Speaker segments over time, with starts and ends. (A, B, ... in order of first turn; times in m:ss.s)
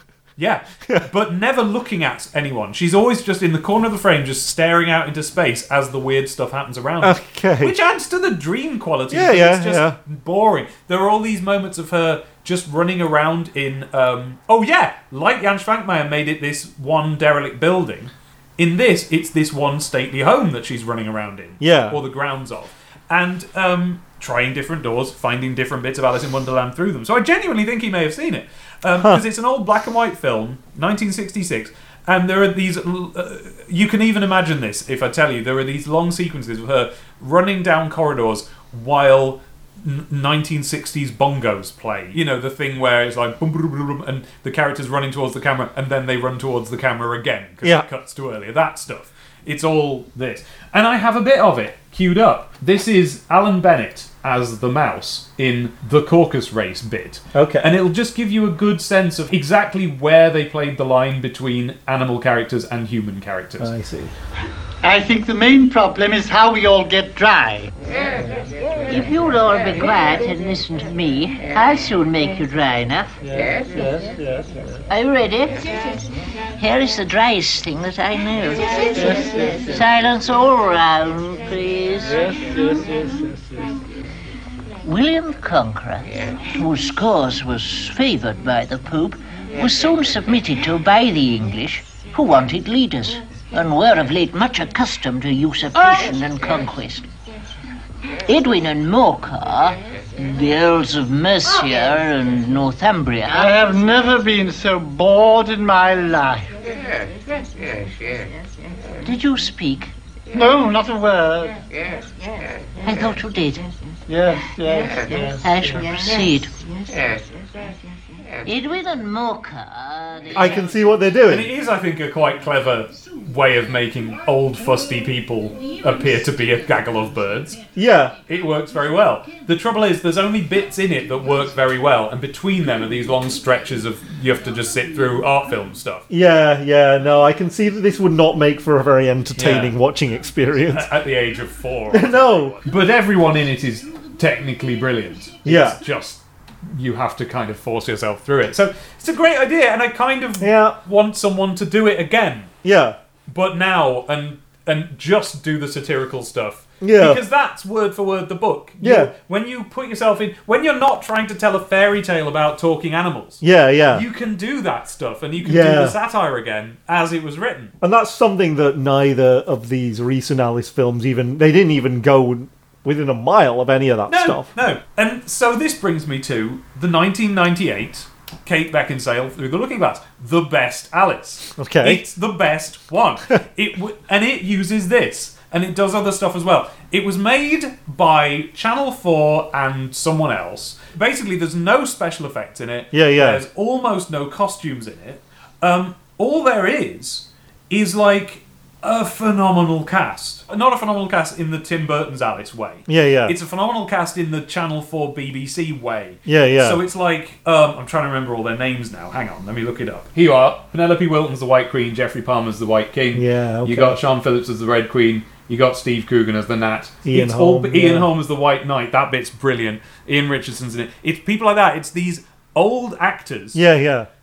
0:00.4-1:03.7 A
0:07.0-0:07.8 B
0:09.1-0:10.0 B
0:21.6-0:22.0 B
0:29.0-0:29.2 B
0:57.3-0:57.7 B
1:03.6-1:04.1 B
1:04.8-1:07.7 C
1:08.9-1:13.2 D
1:13.2-1:14.9 C
1:14.9-1:15.6 D
1:16.6-1:22.2 D
1:18.9-1:19.8 C
1:22.0-1:23.8 C
1:24.8-1:37.1 D
1:38.3-1:43.6 D
1:43.3-1:46.5 C
1:49.0-1:49.9 D
1:50.3-1:51.6 C
1:52.8-1:53.7 D
1:54.1-1:55.8 C
1:55.4-1:56.5 D
1:58.4-2:00.7 D
2:00.3-2:01.5 B
2:01.3-2:07.6 A
2:07.8-2:08.2 B
2:08.3-2:16.1 A
2:16.1-2:20.9 B
2:19.4-2:19.8 A
2:20.7-2:32.5 A
2:21.9-2:22.6 B
2:25.4-2:25.8 B
2:30.4-2:30.8 B
2:32.6-2:33.0 B
2:33.3-2:47.7 A
2:36.8-2:37.2 B
2:38.8-2:39.1 B
2:43.4-2:44.1 B
2:45.4-2:46.0 B
2:47.8-2:54.5 B
2:54.1-3:43.6 A
3:01.6-3:02.0 B
3:12.9-3:13.4 B
3:22.9-3:23.4 B
3:26.3-3:26.8 B
3:33.1-3:34.0 B
3:37.0-3:38.1 B
3:43.5-3:44.1 B